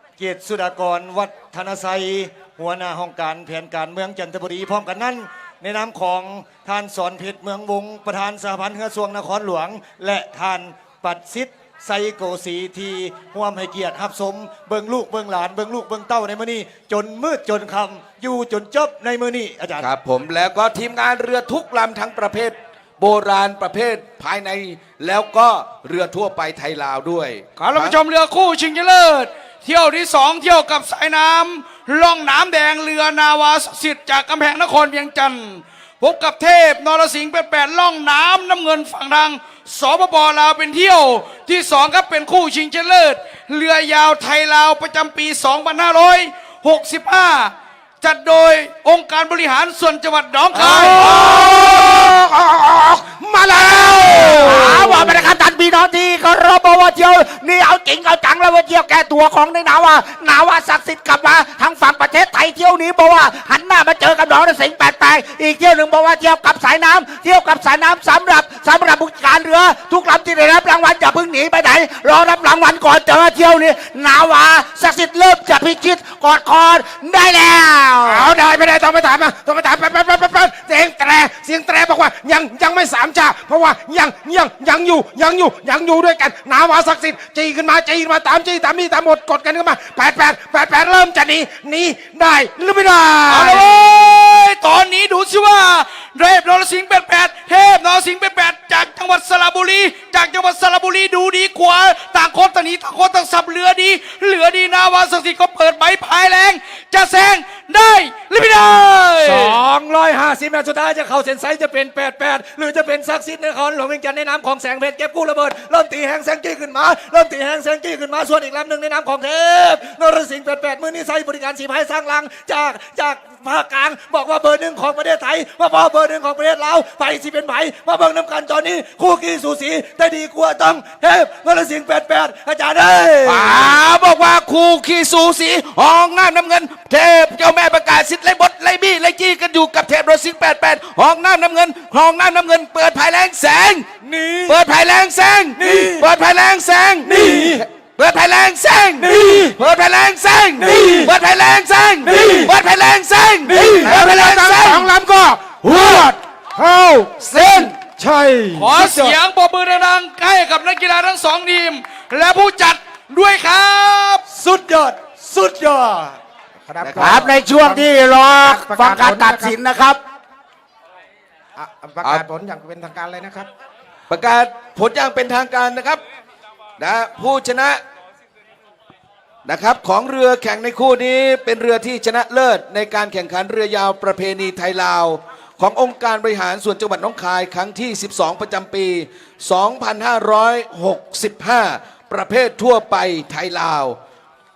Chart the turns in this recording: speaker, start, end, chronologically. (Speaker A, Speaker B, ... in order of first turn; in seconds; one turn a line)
Speaker A: 0.2-19.9
Speaker B: 19.8-28.0
Speaker C: 27.6-51.5
Speaker A: 50.5-51.0
Speaker D: 50.7-55.3
Speaker E: 54.4-78.3
Speaker D: 78.0-93.7
Speaker C: 93.2-109.6
Speaker A: 109.2-133.8
Speaker B: 133.2-143.9
Speaker A: 144.0-144.6
Speaker B: 144.5-154.9
Speaker A: 145.6-146.0
Speaker A: 147.0-147.6
Speaker A: 149.0-149.5
Speaker A: 150.6-151.1
Speaker A: 152.0-152.5
Speaker A: 153.5-153.9
Speaker D: 153.7-158.7
Speaker C: 157.2-157.7
Speaker C: 158.5-164.2
Speaker A: 158.7-159.2
Speaker A: 164.3-166.2
Speaker D: 166.7-167.8
Speaker B: 166.8-167.2
Speaker E: 167.0-170.0
Speaker D: 168.4-169.6
Speaker D: 171.6-173.5
Speaker B: 174.1-176.0
Speaker B: 176.8-177.8
Speaker B: 179.4-194.0